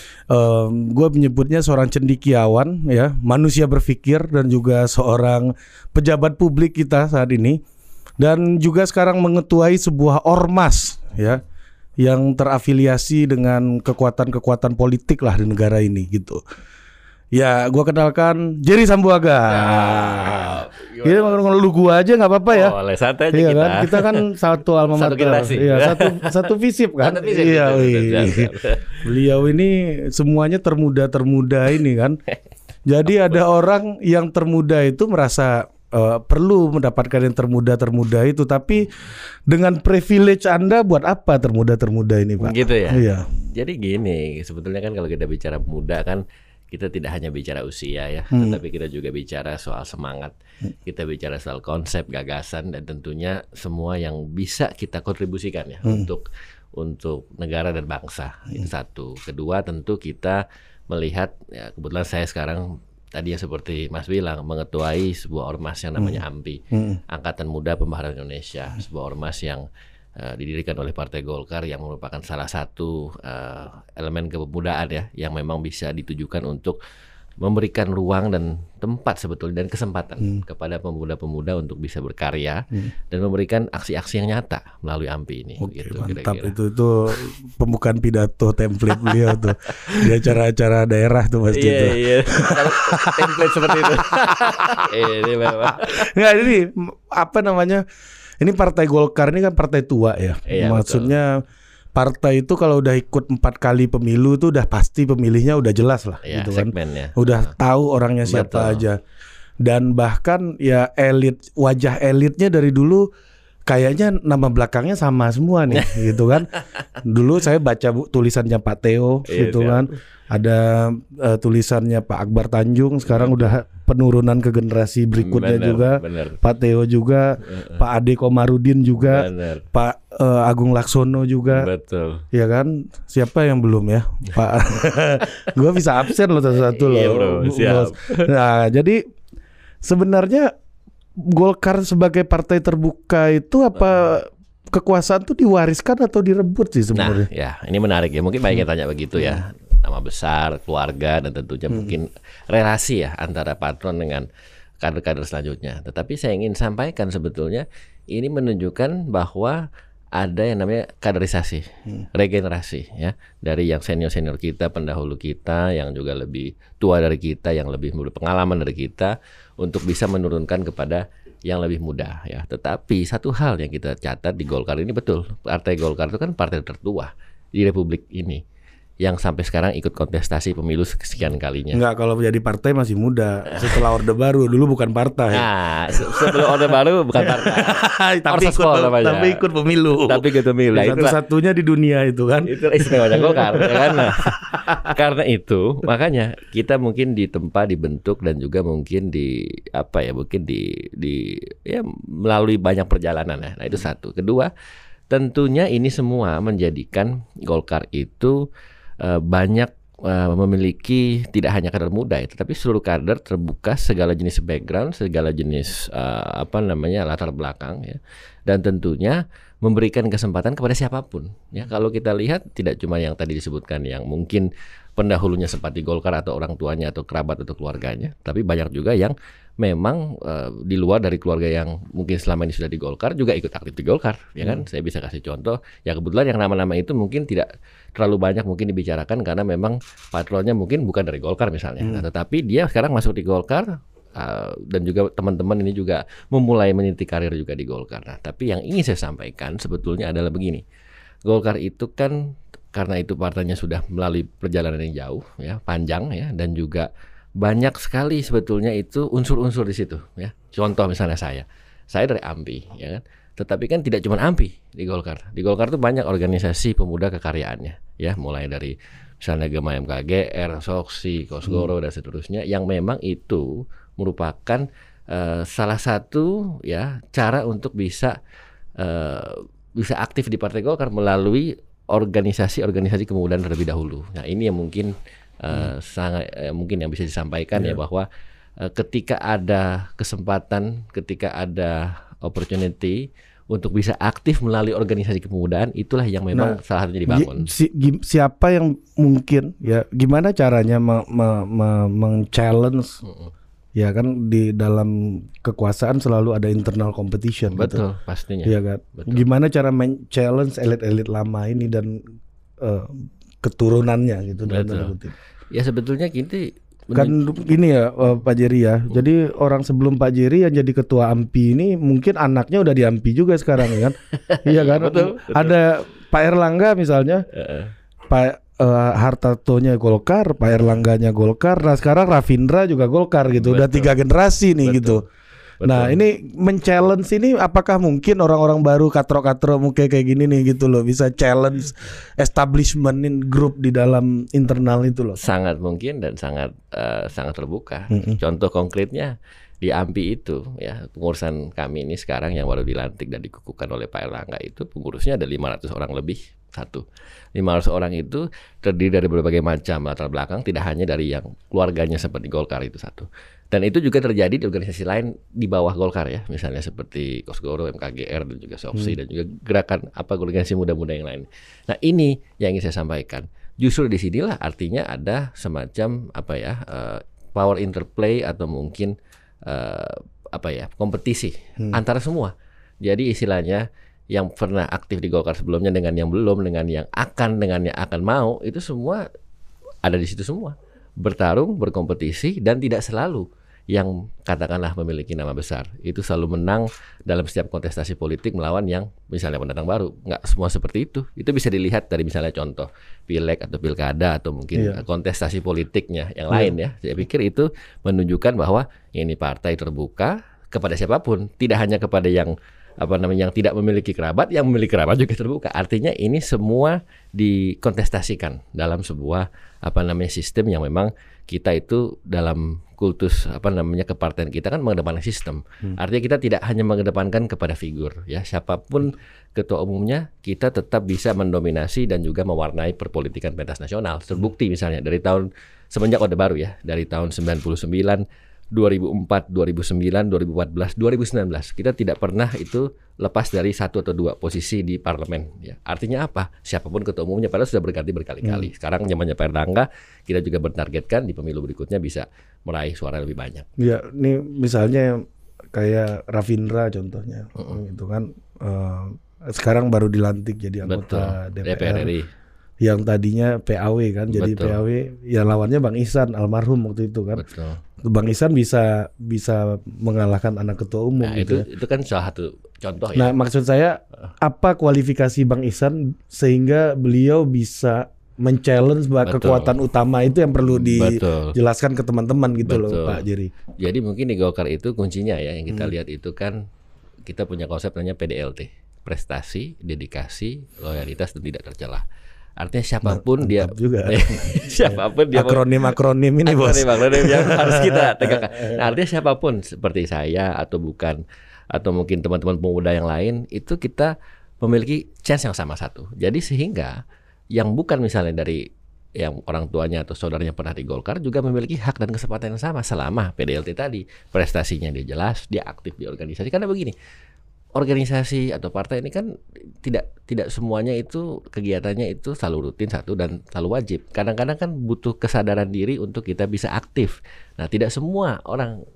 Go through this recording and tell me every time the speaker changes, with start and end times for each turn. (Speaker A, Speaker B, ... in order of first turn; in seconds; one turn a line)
Speaker A: 0.3-7.6
Speaker A: 8.2-11.4
Speaker A: 12.0-16.4
Speaker A: 17.3-22.8
Speaker B: 19.5-21.4
Speaker B: 22.5-24.3
Speaker A: 23.3-32.2
Speaker B: 24.9-26.4
Speaker B: 27.0-29.0
Speaker A: 32.9-39.0
Speaker A: 39.5-43.3
Speaker B: 42.4-69.6
Speaker A: 48.3-48.6
Speaker A: 66.7-67.0
Speaker B: 70.2-76.8
Speaker B: 77.4-86.5
Speaker A: 85.6-97.8
Speaker B: 91.5-96.1
Speaker A: 98.4-101.4
Speaker B: 100.5-101.1
Speaker A: 101.9-109.0
Speaker B: 106.2-107.5
Speaker B: 108.2-108.8
Speaker A: 109.6-113.1
Speaker A: 113.7-116.5
Speaker B: 115.7-116.0
Speaker A: 117.0-131.7
Speaker B: 119.3-119.9
Speaker B: 123.1-123.5
Speaker B: 125.2-126.4
Speaker B: 127.5-127.8
Speaker B: 129.0-129.7
Speaker B: 131.5-132.2
Speaker A: 132.3-139.0
Speaker B: 136.6-138.3
Speaker A: 139.8-140.5
Speaker A: 141.2-147.3
Speaker B: 146.9-154.3
Speaker B: 154.8-159.6
Speaker B: 160.2-178.4
Speaker B: 179.0-181.8
Speaker A: 181.7-194.9
Speaker B: 183.5-183.9
Speaker B: 185.3-189.4
Speaker B: 190.0-191.2
Speaker B: 192.4-204.5
Speaker B: 205.1-208.4
Speaker B: 209.0-250.6
Speaker B: 251.2-256.9
Speaker B: 257.4-278.1
Speaker B: 278.8-288.1
Speaker B: 288.6-297.5
Speaker A: 296.3-303.0
Speaker B: 303.0-303.3
Speaker A: 303.8-307.8
Speaker B: 307.5-309.2
Speaker A: 308.4-312.1
Speaker A: 312.6-315.1
Speaker B: 314.4-314.9
Speaker B: 315.5-317.2
Speaker A: 316.9-327.2
Speaker B: 324.3-325.6
Speaker B: 327.3-327.7
Speaker A: 328.1-335.0
Speaker B: 333.4-333.9
Speaker B: 334.6-335.0
Speaker B: 335.6-336.0
Speaker A: 335.6-345.2
Speaker B: 345.2-378.9
Speaker A: 347.9-348.2
Speaker B: 379.4-389.0
Speaker B: 389.8-453.5
Speaker A: 404.5-404.8
Speaker A: 448.2-448.5
Speaker A: 453.6-461.9
Speaker B: 460.6-462.1
Speaker A: 462.6-467.2
Speaker B: 464.1-464.6
Speaker B: 467.1-467.6
Speaker A: 467.8-471.4
Speaker B: 471.0-473.1
Speaker A: 472.9-483.3
Speaker B: 479.0-479.6
Speaker B: 480.5-481.4
Speaker B: 482.4-483.0
Speaker B: 483.6-486.4
Speaker B: 487.1-491.8
Speaker B: 492.4-495.7
Speaker A: 492.8-498.6
Speaker B: 496.2-501.0
Speaker B: 501.5-506.8
Speaker B: 507.3-516.7
Speaker B: 517.5-519.1
Speaker B: 519.6-528.6